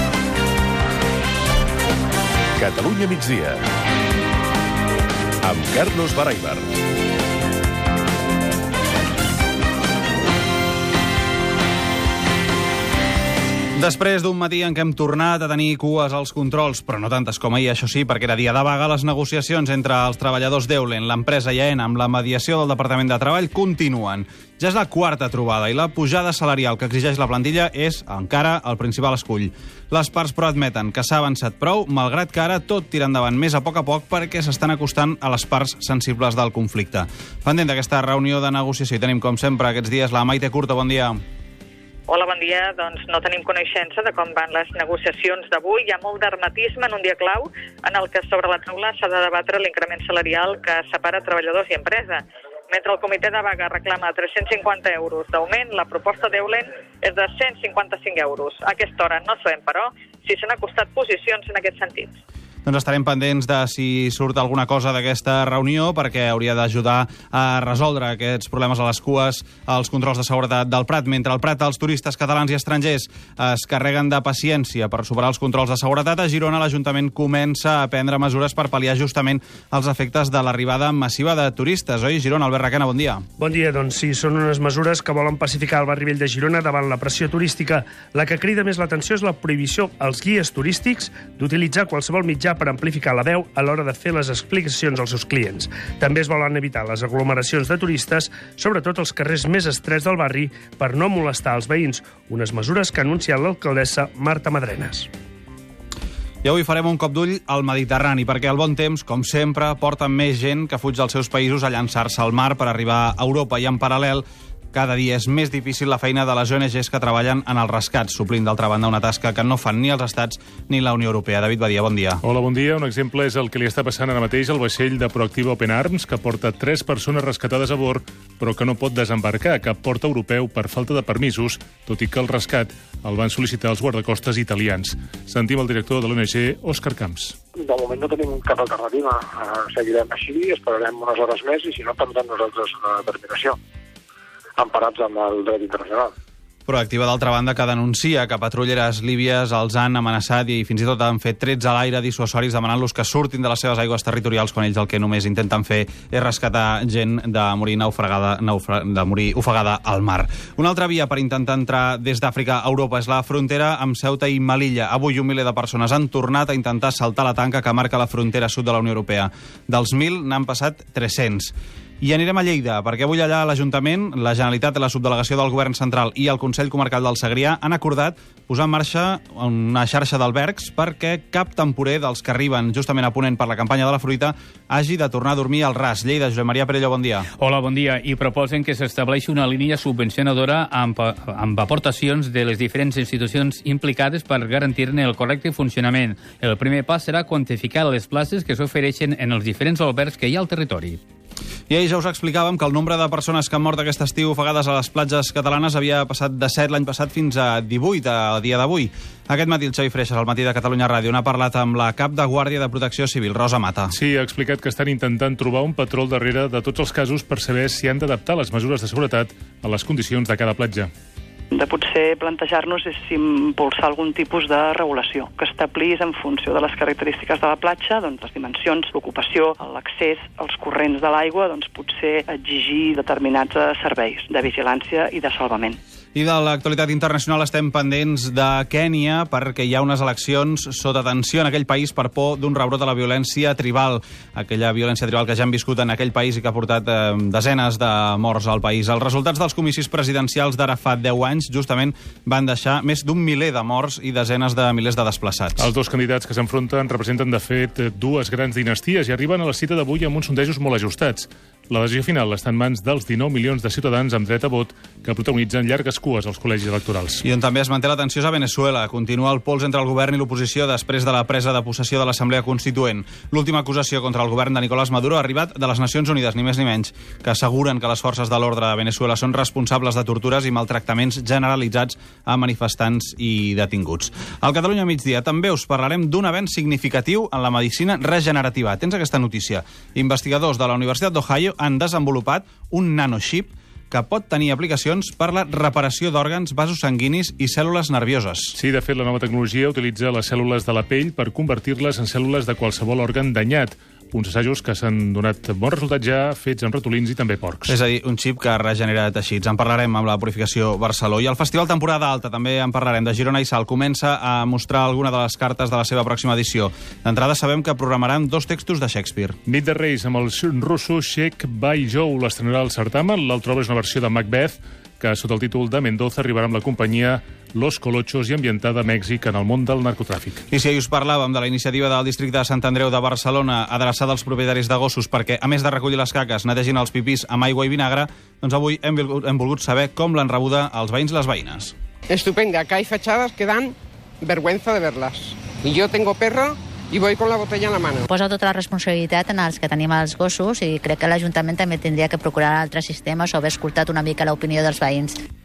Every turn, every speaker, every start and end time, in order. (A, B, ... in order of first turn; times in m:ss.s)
0:02.6-0:03.6 A
0:05.4-0:06.7 A
0:13.8-0:41.2 B
0:42.1-1:02.1 C
1:02.6-1:23.2 B
1:23.4-1:45.1 D
1:46.4-2:02.2 B
2:02.2-2:17.4 E
2:17.6-2:23.6 F
2:24.6-2:26.1 F
2:26.7-3:07.3 B
3:07.4-3:21.0 G
3:21.7-3:33.9 B
3:33.9-3:40.9 E
3:41.5-3:55.8 H
3:56.2-4:15.7 B
4:15.6-4:27.2 E
4:27.2-4:58.6 B
4:58.6-5:07.8 E
5:07.6-5:19.4 B
5:19.5-5:30.4 E
5:30.5-5:41.7 B
5:42.1-5:43.7 I
5:44.2-5:48.0 I
5:48.1-5:55.2 J